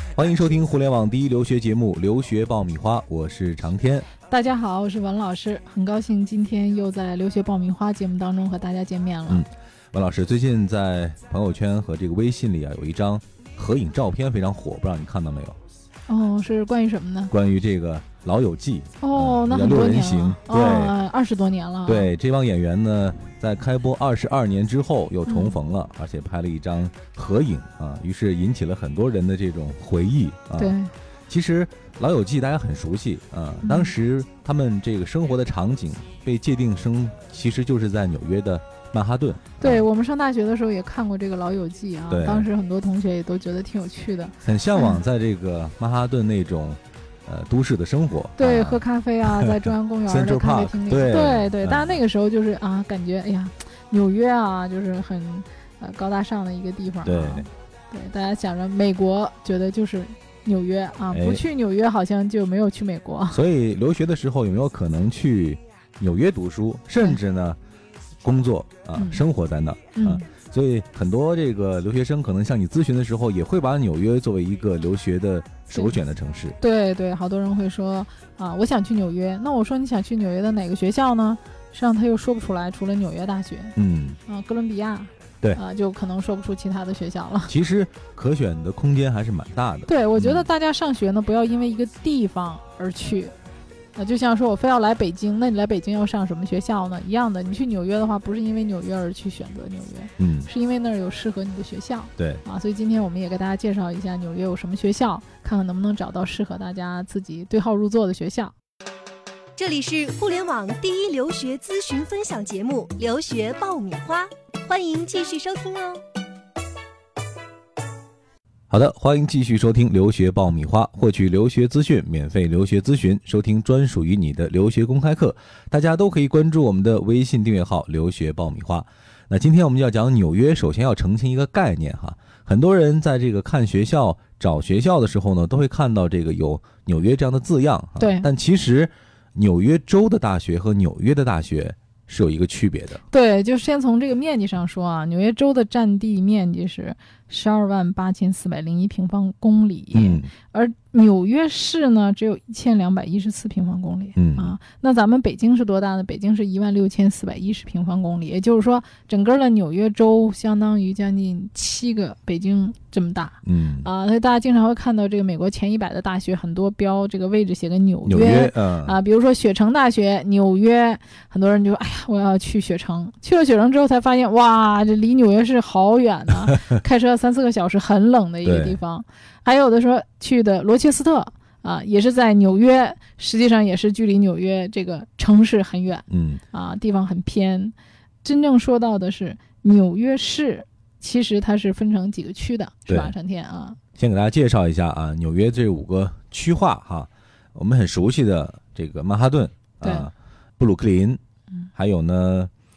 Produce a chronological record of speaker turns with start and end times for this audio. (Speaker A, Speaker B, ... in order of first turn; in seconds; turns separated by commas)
Speaker A: 0.1-4.1, Speaker B: 4.3-9.4, Speaker A: 9.3-15.6, Speaker B: 16.1-17.3, Speaker A: 17.3-20.9, Speaker B: 19.0-22.1, Speaker A: 21.9-30.8, Speaker B: 25.3-25.6, Speaker B: 30.6-30.9, Speaker A: 31.3-39.8, Speaker B: 33.6-33.9, Speaker B: 39.6-45.0, Speaker A: 42.1-42.5, Speaker A: 44.4-52.0, Speaker B: 48.4-63.4, Speaker A: 57.0-57.5, Speaker A: 61.1-61.4, Speaker A: 63.3-67.6, Speaker A: 68.2-76.6, Speaker B: 69.0-69.2, Speaker B: 69.9-70.2, Speaker B: 76.6-83.7, Speaker A: 83.8-84.2, Speaker B: 84.2-87.5, Speaker A: 87.5-90.5, Speaker B: 89.8-93.3, Speaker B: 93.9-108.5, Speaker A: 100.2-100.5, Speaker C: 109.6-116.0, Speaker A: 118.7-143.0, Speaker B: 138.0-138.3, Speaker B: 143.1-193.8, Speaker A: 149.9-150.3, Speaker A: 154.2-154.5, Speaker A: 163.4-163.9, Speaker A: 168.1-169.0, Speaker A: 178.4-178.8, Speaker A: 186.1-186.4, Speaker A: 192.9-193.1, Speaker A: 194.0-201.2, Speaker B: 199.8-200.1, Speaker A: 201.8-202.5